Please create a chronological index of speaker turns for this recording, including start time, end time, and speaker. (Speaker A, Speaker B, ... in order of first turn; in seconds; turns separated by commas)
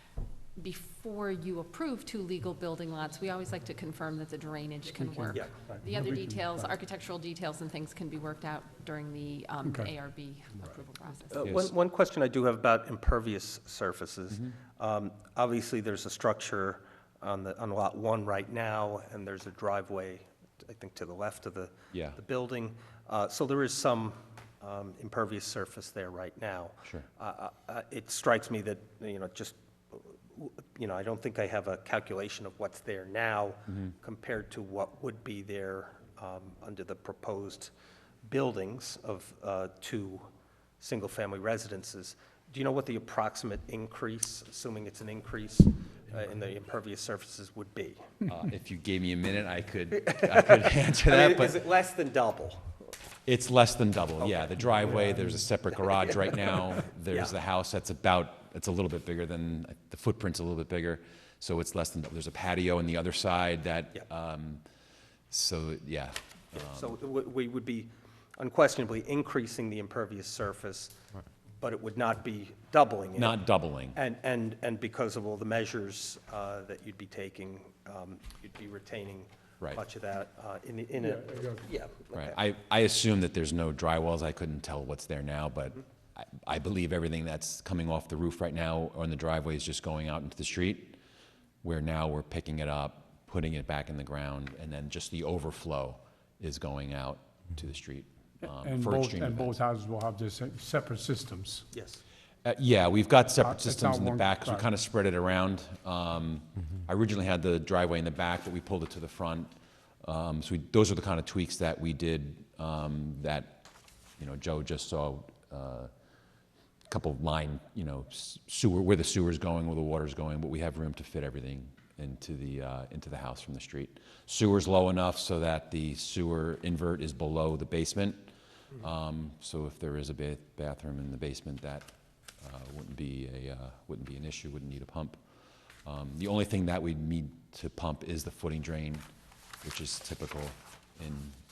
Speaker A: 0.6-11.6, Speaker B: 4.9-6.7, Speaker B: 9.6-9.9, Speaker C: 11.3-37.7, Speaker D: 21.9-22.2, Speaker C: 38.2-40.3, Speaker C: 40.8-48.1, Speaker D: 48.3-51.6, Speaker C: 50.1-52.8, Speaker D: 53.2-64.6, Speaker C: 54.2-55.1, Speaker D: 65.3-66.9, Speaker C: 66.5-70.9, Speaker C: 71.6-73.4, Speaker D: 73.2-74.0, Speaker C: 73.9-82.3, Speaker B: 81.0-81.6, Speaker D: 82.1-91.0, Speaker D: 91.6-99.6, Speaker B: 98.4-101.7, Speaker C: 101.7-102.0, Speaker D: 102.4-109.5, Speaker B: 103.4-104.7, Speaker D: 110.0-113.7, Speaker D: 114.2-115.9, Speaker D: 116.9-131.9, Speaker D: 132.4-135.2, Speaker D: 135.8-139.1, Speaker D: 139.6-141.3